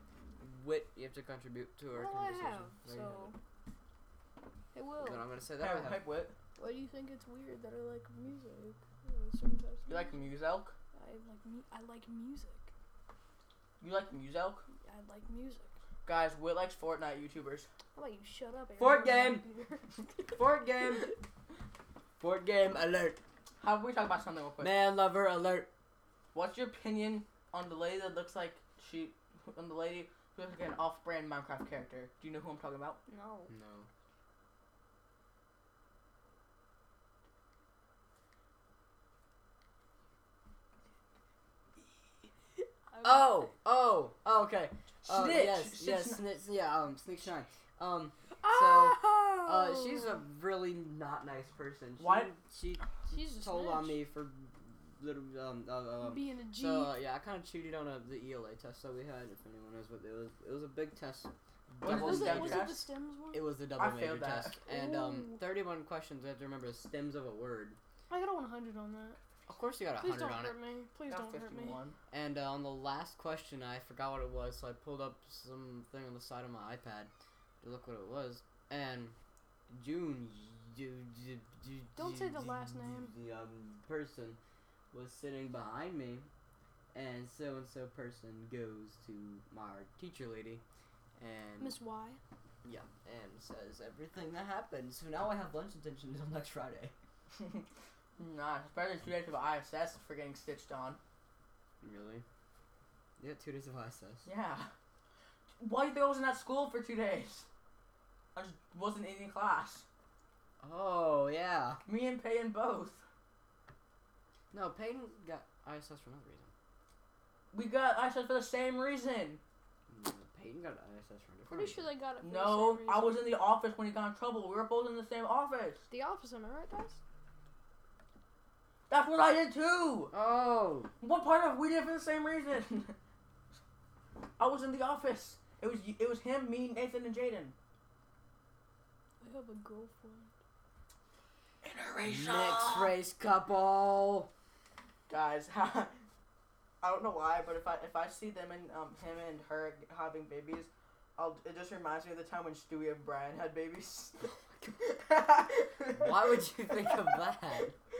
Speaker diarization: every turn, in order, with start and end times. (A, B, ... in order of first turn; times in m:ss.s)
0:00.4-0:03.3 A
0:01.9-0:03.4 B
0:04.7-0:05.2 B
0:05.0-0:06.0 A
0:05.6-0:06.3 C
0:06.6-0:10.2 B
0:09.9-0:10.8 C
0:10.9-0:12.7 B
0:13.8-0:14.6 C
0:14.8-0:15.7 B
0:16.0-0:17.7 C
0:18.0-0:20.3 B
0:18.8-0:19.5 A
0:20.4-0:21.2 A
0:20.9-0:21.1 B
0:22.2-0:23.2 A
0:23.6-0:24.8 C
0:24.6-0:25.7 A
0:26.3-0:33.0 C
0:33.1-0:33.5 B
0:33.5-0:33.9 A
0:42.9-0:43.5 B
0:43.0-1:02.7 A
0:45.0-0:46.3 C
0:48.4-0:50.2 B
0:52.0-0:52.3 C
0:53.1-0:54.0 B
0:56.0-0:57.0 B
1:01.8-1:02.8 C
1:01.8-1:03.4 B
1:03.3-1:07.8 A
1:03.8-1:04.6 C
1:04.7-1:05.4 B
1:08.1-1:09.2 B
1:09.5-1:10.6 A
1:10.0-1:11.8 B
1:11.1-1:12.0 C
1:12.1-1:19.2 A
1:19.7-1:24.4 A
1:22.0-1:23.1 B
1:24.9-1:26.3 A
1:26.9-1:30.6 A
1:31.2-1:31.8 A
1:31.6-1:32.2 B
1:32.6-1:37.0 A
1:37.4-1:37.7 C
1:38.2-1:41.0 C
1:41.8-1:42.2 A
1:43.2-1:44.3 A
1:44.2-1:44.7 C
1:45.6-1:47.5 C
1:48.4-1:49.8 C
1:50.6-1:51.8 A
1:51.9-1:53.0 C
1:54.5-1:56.5 A
1:57.5-1:59.4 C
1:59.9-2:01.9 A
2:01.5-2:03.3 B
2:02.2-2:05.8 C
2:05.9-2:07.0 B
2:08.9-2:10.1 C
2:10.1-2:10.9 A
2:11.0-2:13.0 C
2:14.4-2:17.6 C
2:19.2-2:20.3 B
2:21.6-2:22.9 C
2:22.1-2:24.3 A
2:25.1-2:26.0 C
2:26.8-2:37.2 C
2:35.9-2:37.8 A